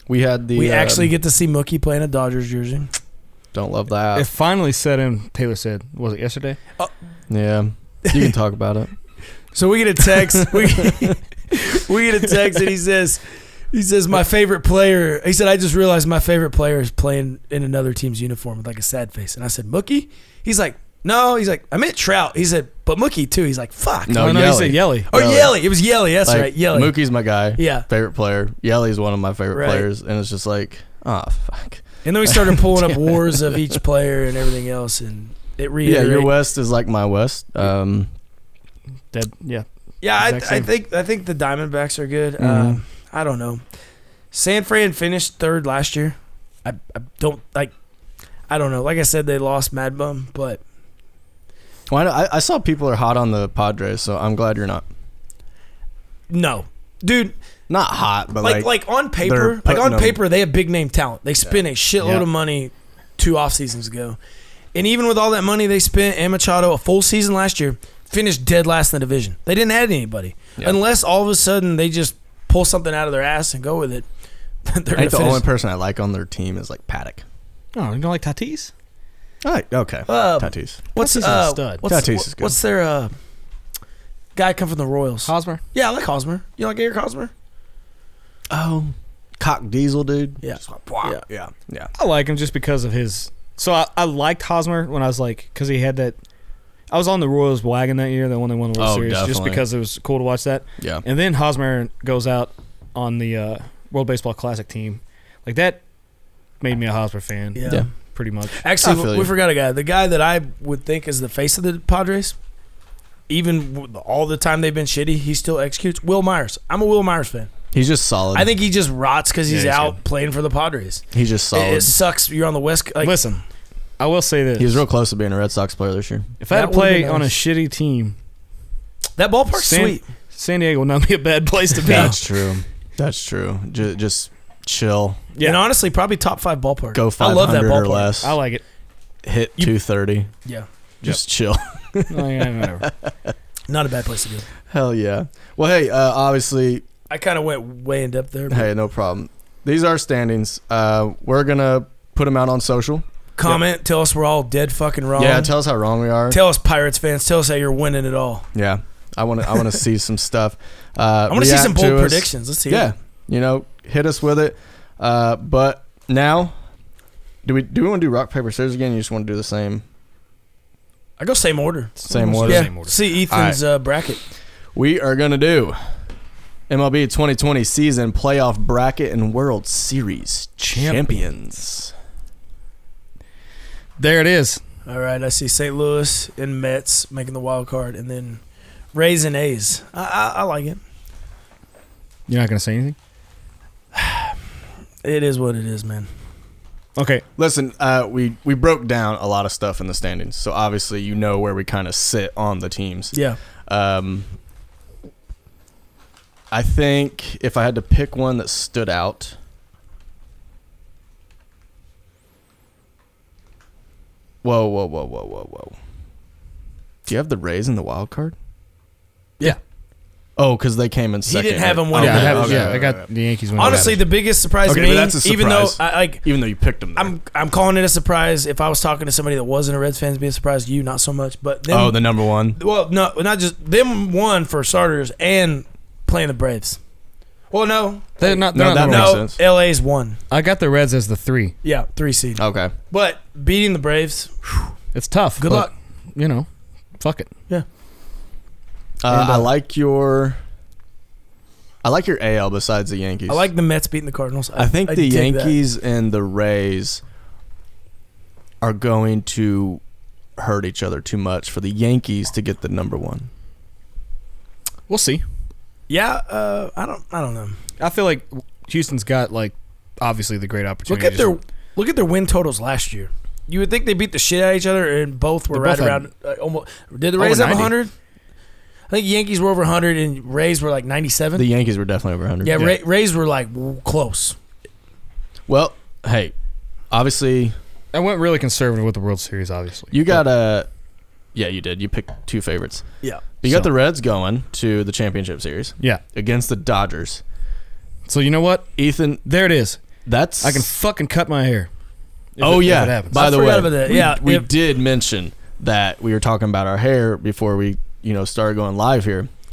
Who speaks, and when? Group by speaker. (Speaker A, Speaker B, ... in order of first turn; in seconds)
Speaker A: 0.1-1.1, 3.5-4.3, 7.3-8.9, 24.1-25.6, 26.2-33.7, 35.8-38.1, 42.4-42.8, 51.9-54.9, 57.7-60.2, 75.0-77.2, 79.4-80.8, 81.9-82.5, 88.5-91.9, 98.8-99.6, 108.8-109.3, 117.7-118.5, 121.1-121.9, 124.6-126.3, 131.8-135.3, 136.9-138.3, 139.2-140.3, 141.0-143.3, 144.7-146.8, 148.5-153.6, 155.2-156.4, 158.5-166.5, 167.4-169.8, 172.1-172.7, 173.3-173.6, 174.7-175.8, 176.7-181.9, 197.4-203.2, 203.7-204.3, 206.5-209.4, 214.4-215.8, 217.1-218.3, 220.4-223.1, 223.6-223.9, 224.6-227.1, 231.7-232.6, 238.5-239.4, 242.4-242.7, 249.0-250.4, 251.8-253.5, 254.6-257.0, 258.6-259.8, 260.4-263.3, 281.4-282.6, 285.5-286.3, 286.9-287.5, 289.9-290.7, 291.3-292.8, 293.4-297.2, 298.8-299.2, 300.1-300.7, 302.4-309.3
Speaker B: 0.5-2.9, 9.5-24.4, 25.1-27.0, 27.6-27.9, 29.5-29.9, 32.0-36.3, 40.0-43.6, 44.3-47.7, 48.5-50.6, 56.3-57.4, 58.4-64.2, 64.7-74.0, 74.6-75.4, 80.1-83.1, 84.4-87.3, 90.4-91.2, 107.5-107.9, 108.5-112.4, 113.3-117.5, 118.3-123.2, 126.5-127.3, 129.2-130.0, 131.8-132.1, 135.4-138.1, 143.7-144.5, 147.1-148.7, 153.4-155.5, 156.3-158.4, 161.3-162.9, 171.2-174.2, 184.9-188.4, 188.9-190.8, 193.9-194.3, 195.0-196.1, 203.1-203.4, 221.3-222.7, 223.6-226.2, 226.9-236.8, 237.5-240.2, 241.6-244.7, 245.4-245.7, 249.1-249.5, 253.3-255.6, 265.9-267.6, 270.9-277.9, 278.9-281.4, 282.4-284.4, 303.1-304.5
Speaker C: 4.1-6.6, 24.2-25.1, 39.1-40.7, 62.0-62.2, 77.7-78.7, 81.0-81.8, 85.2-85.6, 91.9-96.2, 96.9-105.8, 106.6-108.6, 119.5-120.0, 123.0-123.4, 124.0-124.8, 126.4-128.2, 129.5-132.2, 135.3-135.6, 138.2-138.6, 142.1-142.9, 172.0-172.9, 180.7-181.2, 184.0-184.6, 192.3-192.9, 196.9-197.2, 221.9-224.0, 238.2-239.2, 240.3-241.6, 244.9-246.5, 247.0-247.3, 264.9-265.2, 267.8-271.4, 275.5-276.0, 277.2-277.7, 287.9-290.2, 293.4-293.7, 298.1-298.7, 299.2-299.8, 300.4-301.7, 302.4-303.2